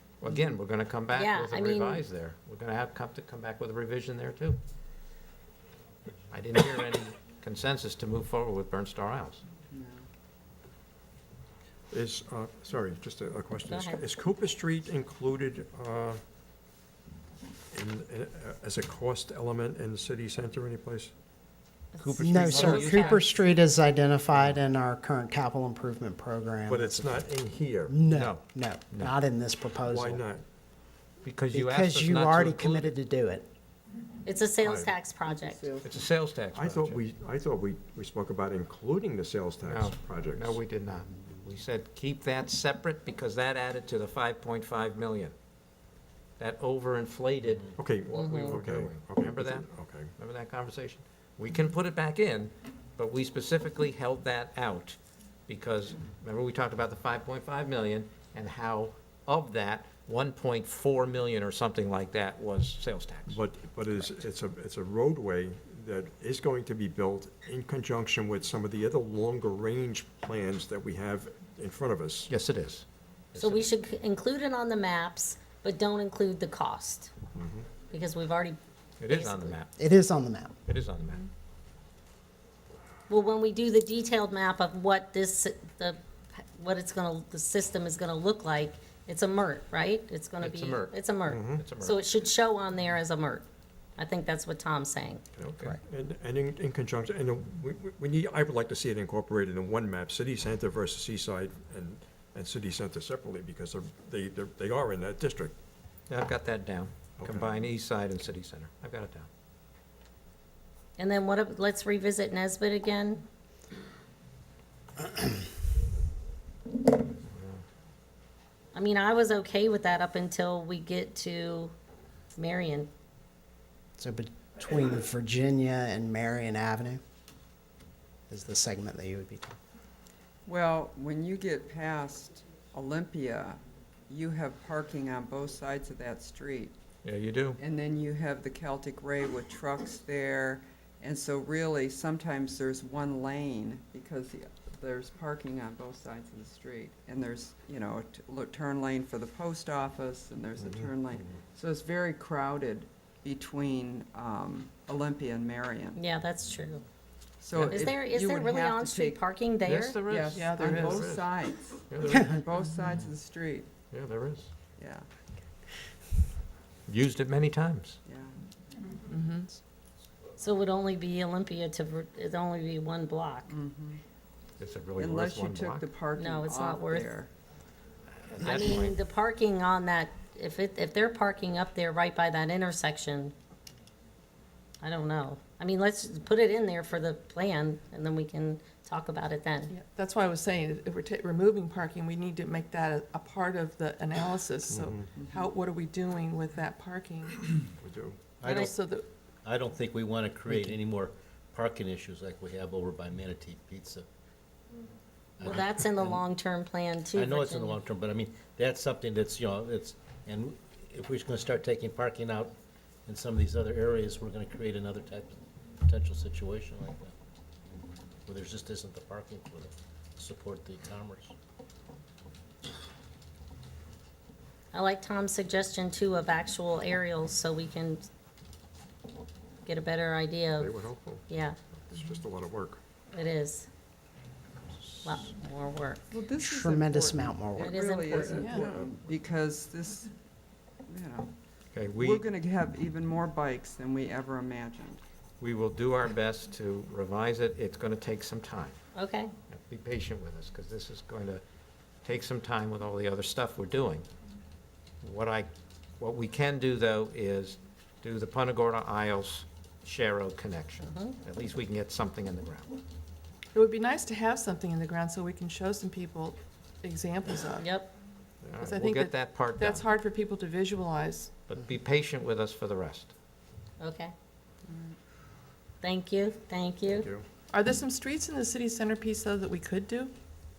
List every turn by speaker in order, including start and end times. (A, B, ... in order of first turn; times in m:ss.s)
0:00.2-0:04.6 A
0:01.1-0:02.0 B
0:06.3-0:09.4 A
0:09.7-0:10.0 C
0:11.9-0:16.2 D
0:13.7-0:14.0 B
0:17.7-0:21.1 D
0:21.9-0:23.2 B
0:22.0-0:23.2 A
0:22.2-0:22.5 D
0:22.2-0:27.3 E
0:24.3-0:24.6 A
0:26.7-0:28.0 D
0:27.8-0:30.2 E
0:28.1-0:29.2 A
0:29.8-0:30.4 D
0:31.2-0:32.9 A
0:31.5-0:33.4 E
0:34.2-0:35.7 B
0:34.6-0:34.9 D
0:35.2-0:36.0 C
0:35.8-0:37.0 A
0:36.5-0:40.6 D
0:39.6-0:45.3 A
0:46.4-0:55.0 A
0:47.8-0:50.1 D
0:55.5-1:03.4 A
1:03.3-1:12.3 D
1:12.3-1:13.7 A
1:13.4-1:17.1 B
1:17.3-1:17.6 D
1:17.9-1:18.6 B
1:19.0-1:19.7 A
1:19.1-1:19.6 B
1:19.8-1:20.6 E
1:20.6-1:21.2 A
1:23.1-1:33.4 B
1:30.4-1:32.0 A
1:31.3-1:31.6 D
1:34.0-1:35.2 B
1:35.4-1:45.5 D
1:46.1-1:49.3 A
1:47.2-1:47.7 D
1:51.0-1:53.2 B
1:57.3-1:57.6 A
1:58.7-2:01.7 B
2:02.4-2:02.9 B
2:04.0-2:07.0 E
2:08.3-2:09.6 E
2:10.4-2:16.7 C
2:17.0-2:17.6 A
2:17.6-2:36.0 C
2:30.6-2:30.9 D
2:36.0-2:36.8 B
2:37.4-2:39.3 C
2:37.5-2:37.9 A
2:37.7-2:40.0 B
2:39.6-2:41.3 A
2:40.0-2:43.7 C
2:40.3-2:41.0 F
2:41.9-2:42.3 A
2:42.1-2:42.4 E
2:43.9-2:44.5 A
2:44.8-2:45.1 C
2:46.9-2:48.0 A
2:48.0-2:48.4 C
2:49.1-2:49.5 F
2:50.4-2:53.5 B
2:53.5-2:54.0 C
2:54.6-2:55.9 A
2:55.0-2:57.3 C
2:56.2-2:57.1 B
2:58.3-2:59.0 A
2:58.4-3:03.3 B
3:04.8-3:09.7 B
3:09.7-3:17.5 F
3:14.7-3:15.1 D
3:15.2-3:15.4 C
3:17.8-3:18.2 D
3:18.4-3:18.8 G
3:18.4-3:19.0 F
3:18.5-3:18.7 B
3:19.4-3:24.1 G
3:25.4-3:26.2 G
3:25.4-3:27.8 B
3:27.1-3:32.5 G
3:33.1-3:37.1 G
3:38.3-3:41.3 G
3:44.7-3:48.0 B
3:49.6-3:50.7 B
3:50.6-3:51.2 D
3:51.3-3:51.6 B
3:51.8-3:52.8 D
3:53.1-3:53.7 B
3:55.0-3:56.0 B
3:56.1-4:00.1 C
3:56.4-3:57.8 E
3:57.5-3:58.6 B
3:58.4-3:58.6 F
3:58.5-3:58.9 D
4:00.8-4:01.3 C
4:01.7-4:02.2 A
4:01.9-4:05.0 C
4:05.4-4:08.8 A
4:08.9-4:09.3 B
4:09.5-4:11.4 A
4:12.0-4:14.0 A
4:15.0-4:22.8 A
4:20.8-4:21.2 B
4:23.5-4:27.7 F
4:27.6-4:27.9 B
4:28.4-4:28.7 D
4:28.5-4:29.9 A
4:28.6-4:31.3 F
4:31.5-4:33.1 A
4:33.8-4:34.1 B
4:35.8-4:37.1 B
4:36.8-4:37.2 D
4:37.5-4:40.1 F